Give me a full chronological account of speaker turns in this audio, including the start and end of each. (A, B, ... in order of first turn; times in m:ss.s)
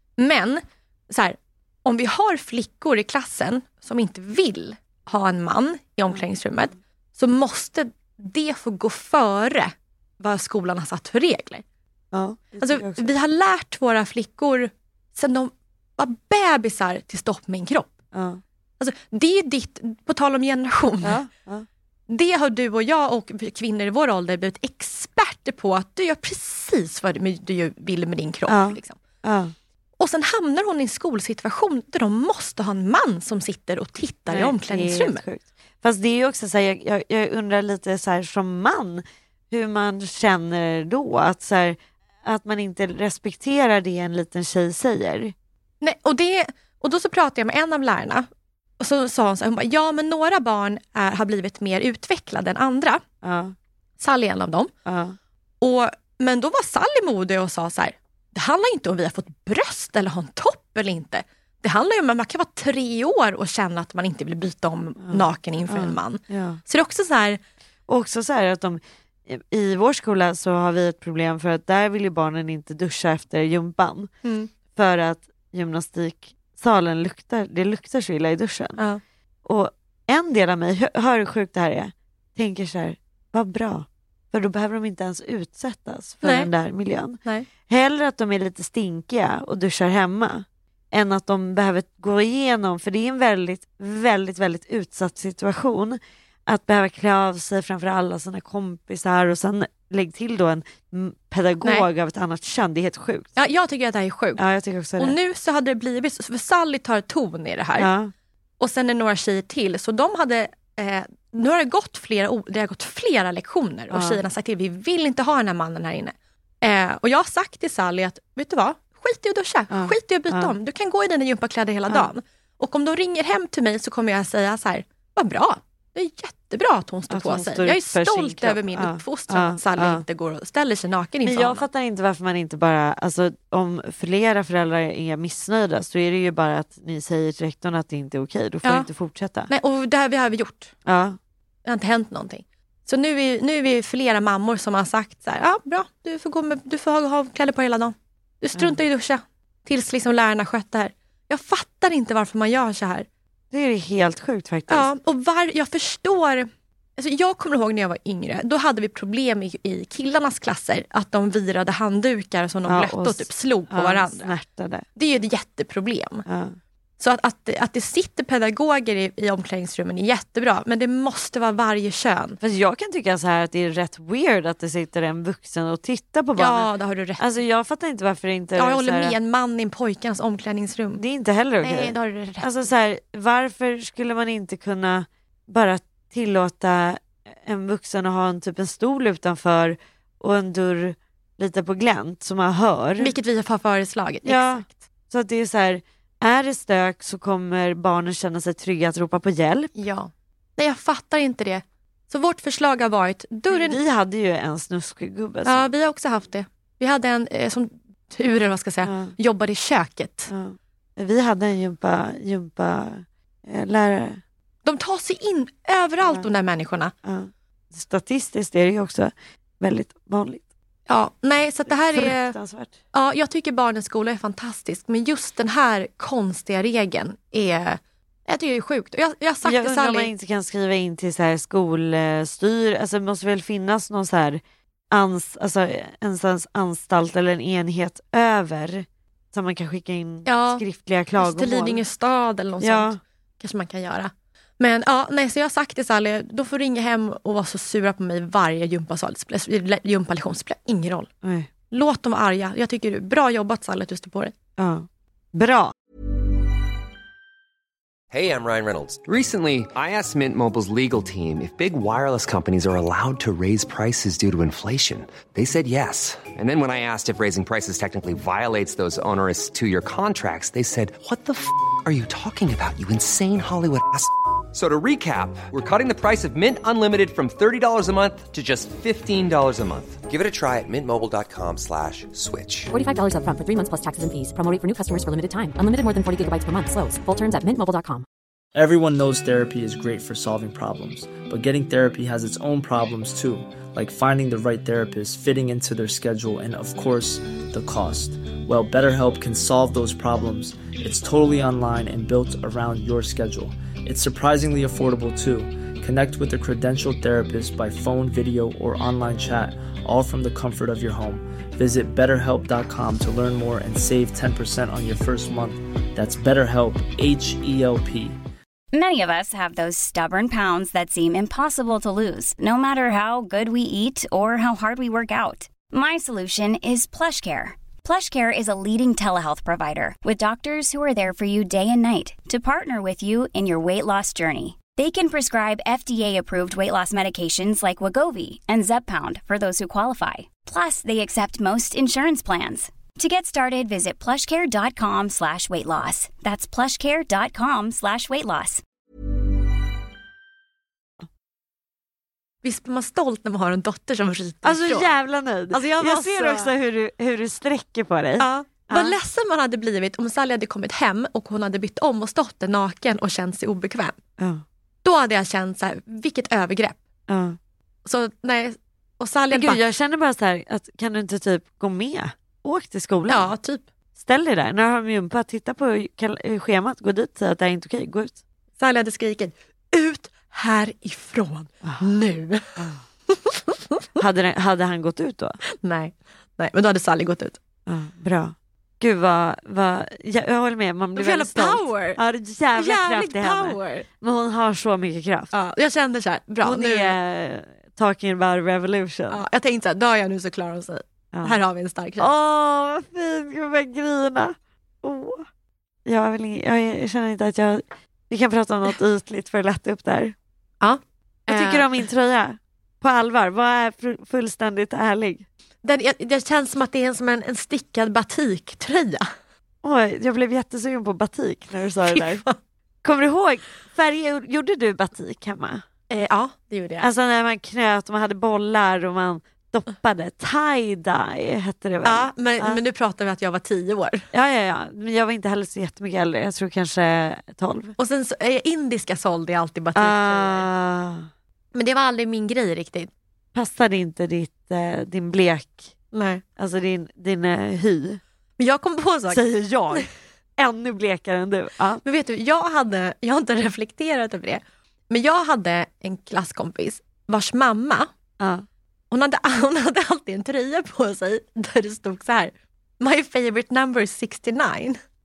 0:00.2-0:11.6 A
0:12.1-0:13.1 B
0:12.6-0:17.9 A
0:18.1-0:18.4 B
0:18.8-0:21.2 A
0:21.0-0:21.6 B
0:22.1-0:29.0 A
0:28.5-0:29.5 B
0:30.0-0:35.2 A
0:34.3-0:45.3 B
0:45.8-0:48.3 A
0:48.8-0:53.0 A
0:53.2-0:53.6 B
0:54.0-0:54.7 A
0:54.9-0:55.2 B
0:55.6-1:07.4 A
1:05.0-1:06.6 B
1:07.9-1:14.1 B
1:14.2-1:14.5 A
1:14.7-1:18.8 B
1:19.4-1:43.3 B
1:26.2-1:26.5 A
1:43.4-1:44.4 A
1:44.4-1:45.2 B
1:45.0-1:47.9 A
1:47.8-1:48.1 B
1:48.6-2:11.6 A
1:53.9-1:54.2 B
1:59.7-2:00.5 B
2:07.1-2:10.0 B
2:11.2-2:19.5 B
2:19.5-2:20.7 A
2:20.9-2:21.2 B
2:21.6-2:33.1 A
2:33.5-2:34.9 B
2:34.7-2:44.3 A
2:42.7-2:44.8 B
2:45.0-2:46.2 A
2:46.3-2:46.6 B
2:47.0-2:52.4 A
2:52.4-2:59.2 B
2:56.4-2:57.2 A
2:58.6-3:01.0 A
3:01.0-3:13.1 B
3:01.6-3:02.5 A
3:13.0-3:14.8 A
3:14.2-3:19.7 B
3:19.8-3:23.8 A
3:23.5-3:25.7 B
3:25.4-3:30.3 A
3:28.8-3:29.1 B
3:30.3-3:34.2 B
3:34.6-3:36.9 A
3:37.0-3:40.4 B
3:40.9-3:42.4 A
3:41.7-3:42.7 B
3:42.9-3:50.1 A
3:49.4-3:54.4 B
3:54.9-4:01.8 B
4:00.3-4:00.6 A
4:01.2-4:11.1 A
4:02.6-4:03.0 B
4:11.2-4:11.5 B
4:11.7-4:14.3 A
4:14.6-4:15.7 B
4:18.1-4:42.7 C
4:42.7-4:48.1 D
4:48.6-5:18.2 E
5:18.7-5:48.6 F
5:52.4-5:55.0 A
5:54.4-5:59.0 B
5:55.5-5:56.5 A
5:58.2-6:04.0 A
6:04.2-6:04.4 B
6:04.8-6:06.8 A
6:07.1-6:07.4 B
6:07.8-6:09.6 A
6:09.3-6:13.3 B
6:13.1-6:13.6 A
6:14.0-6:18.2 B
6:18.6-6:22.6 A
6:23.1-6:23.9 A
6:24.0-6:25.4 B
6:25.6-6:27.4 A
6:27.6-6:35.3 B
6:31.0-6:32.0 A
6:32.6-6:33.9 A
6:35.3-6:37.0 A
6:36.4-6:39.2 B
6:39.1-6:42.1 A
6:42.0-6:45.3 B
6:45.9-6:50.1 B
6:50.6-6:51.8 A
6:51.3-6:55.3 B
6:55.6-6:59.1 A
6:59.6-7:02.2 B
7:01.9-7:02.4 A
7:02.8-7:05.6 B
7:05.9-7:06.9 A
7:06.8-7:12.6 B
7:11.8-7:14.1 A
7:14.1-7:17.8 B
7:17.8-7:20.5 A
7:19.8-7:21.1 B
7:21.5-7:22.9 A
7:23.3-7:25.7 B
7:25.9-7:26.2 A
7:26.4-7:28.0 B
7:28.4-7:29.9 A
7:29.1-7:31.8 B
7:31.8-7:37.9 A
7:38.2-7:38.4 B
7:38.9-7:44.8 A